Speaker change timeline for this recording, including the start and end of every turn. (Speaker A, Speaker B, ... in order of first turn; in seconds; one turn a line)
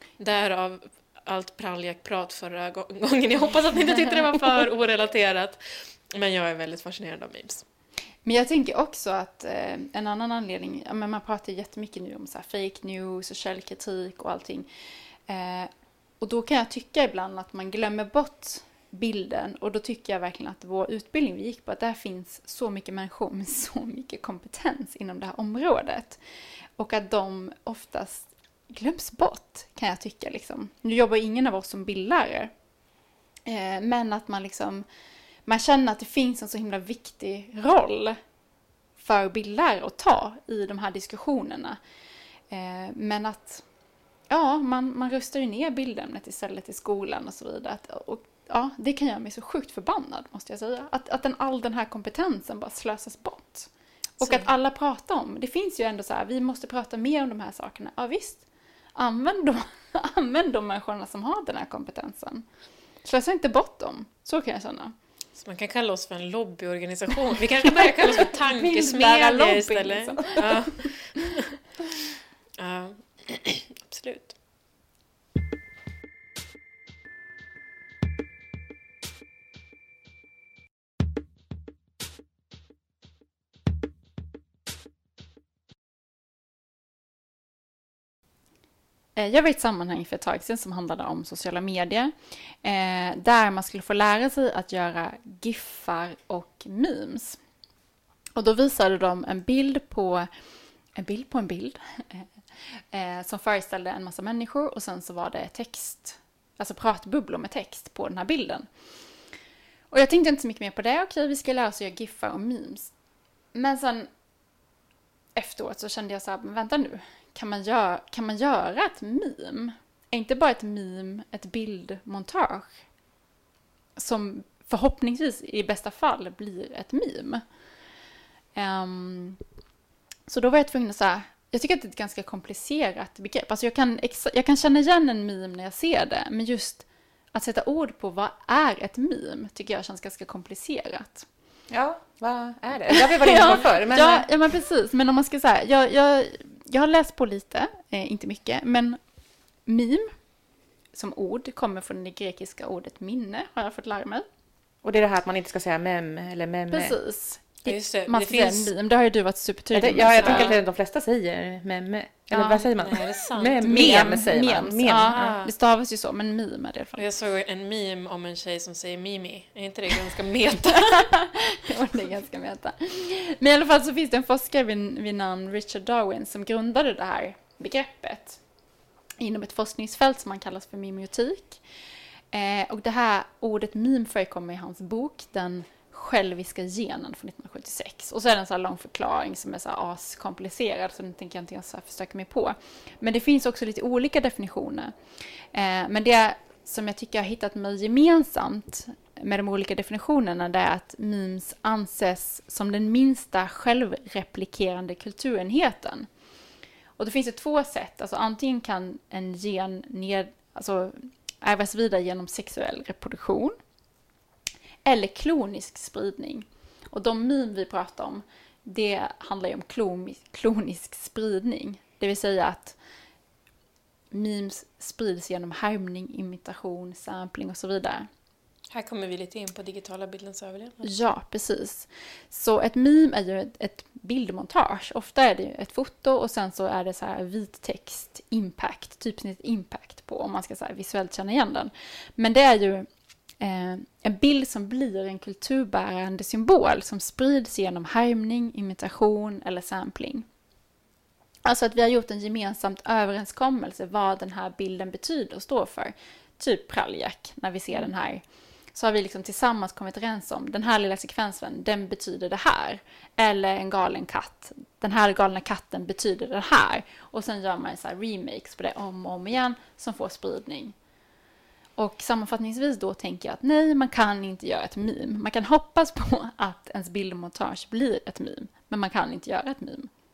Speaker A: 0.2-7.6
Speaker B: 8.2-14.7
Speaker B: 15.3-15.7
Speaker B: 16.2-26.2
Speaker B: 26.8-32.5
Speaker B: 33.5-34.8
Speaker B: 35.5-38.2
Speaker B: 39.0-41.8
Speaker B: 42.5-43.6
Speaker B: 44.3-58.4
Speaker A: 54.2-54.5
Speaker B: 59.0-62.5
Speaker B: 63.0-64.9
Speaker A: 65.3-71.5
Speaker B: 67.7-71.3
Speaker A: 72.6-74.3
Speaker B: 89.2-92.1
Speaker B: 92.6-97.4
Speaker B: 98.3-100.3
Speaker B: 101.0-102.3
Speaker B: 102.9-108.7
Speaker B: 109.9-112.9
Speaker B: 113.5-114.1
Speaker B: 115.3-122.8
Speaker B: 124.0-127.4
Speaker B: 128.5-129.4
Speaker B: 130.3-141.3
Speaker C: 141.7-144.2
Speaker B: 142.9-149.0
Speaker B: 149.7-150.1
Speaker B: 150.9-154.2
Speaker C: 154.8-156.9
Speaker B: 156.7-160.5
Speaker A: 157.7-158.7
Speaker C: 159.7-165.4
Speaker A: 160.2-160.6
Speaker B: 162.3-162.6
Speaker A: 162.6-164.0
Speaker B: 163.6-167.1
Speaker A: 164.9-165.5
Speaker A: 166.9-171.1
Speaker B: 170.7-178.4
Speaker B: 179.2-181.6
Speaker B: 182.3-194.9
Speaker B: 195.5-206.1
Speaker B: 207.0-213.6
Speaker B: 214.8-222.8
Speaker B: 224.1-228.1
Speaker A: 228.7-230.9
Speaker B: 230.8-242.9
Speaker B: 243.4-250.2
Speaker B: 251.4-270.7
Speaker B: 271.8-279.9